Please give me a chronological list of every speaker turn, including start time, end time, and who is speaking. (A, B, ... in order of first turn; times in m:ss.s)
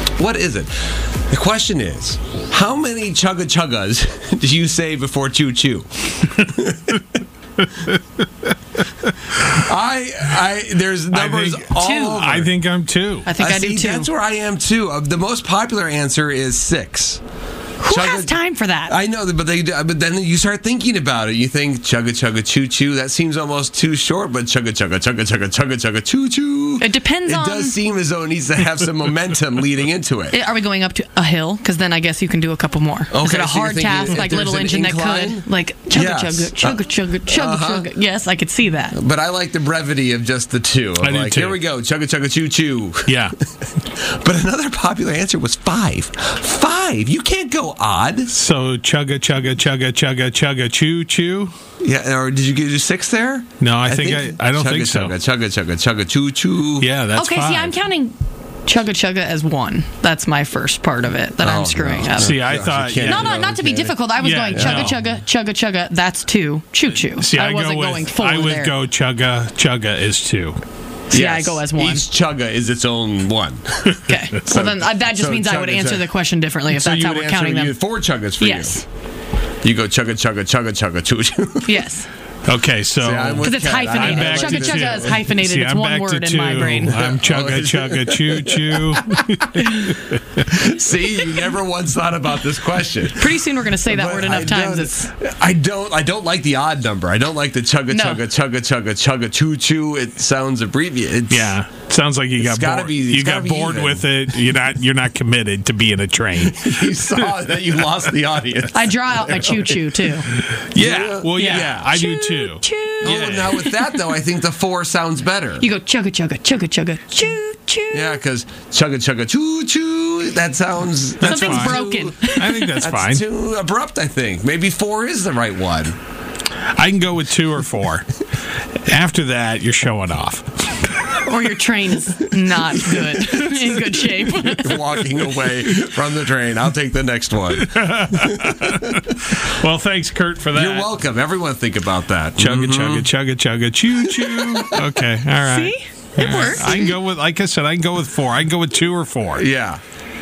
0:00.2-0:07.0 A
0:09.5-0:12.5 A
0:11.1-0:13.3 B
0:11.8-0:12.2 C
0:13.3-0:14.1 C
0:13.4-0:17.2 A
0:17.8-0:19.0 C
0:17.9-0:30.4 A
0:26.8-0:27.8 C
0:30.3-0:39.0 C
0:33.1-0:37.9 A
0:38.9-0:43.3 A
0:41.0-0:41.6 B
0:43.1-0:43.3 B
0:43.9-0:48.3 A
0:48.3-0:51.5 B
0:51.8-0:56.9 A
0:53.6-0:55.1 B
0:56.8-0:57.8 B
0:57.1-1:08.8 C
1:01.4-1:04.0 A
1:02.2-1:03.5 B
1:04.2-1:05.1 B
1:04.5-1:04.9 A
1:07.1-1:10.6 B
1:11.1-1:12.0 C
1:11.1-1:16.1 A
1:14.1-1:17.8 C
1:16.7-1:18.8 A
1:18.4-1:18.8 C
1:19.6-1:21.9 A
1:21.7-1:22.1 C
1:22.4-1:30.2 B
1:23.0-1:25.2 A
1:23.4-1:27.1 C
1:26.9-1:28.9 A
1:30.5-1:41.6 A
1:33.2-1:35.1 C
1:37.9-1:38.2 C
1:41.3-1:47.3 B
1:42.4-1:44.2 A
1:46.4-1:49.8 A
1:48.8-1:50.3 C
1:50.3-1:53.7 B
1:50.8-1:51.9 A
1:51.4-1:54.0 C
1:53.0-1:55.7 A
1:55.6-1:58.2 C
1:57.9-2:06.0 A
2:01.2-2:03.2 B
2:01.2-2:02.8 C
2:06.8-2:08.1 B
2:08.8-2:10.9 B
2:11.2-2:14.8 C
2:14.6-2:18.5 A
2:17.5-2:20.9 B
2:20.5-2:23.1 A
2:22.4-2:29.4 B
2:24.1-2:24.8 A
2:25.4-2:27.0 C
2:29.3-2:29.8 A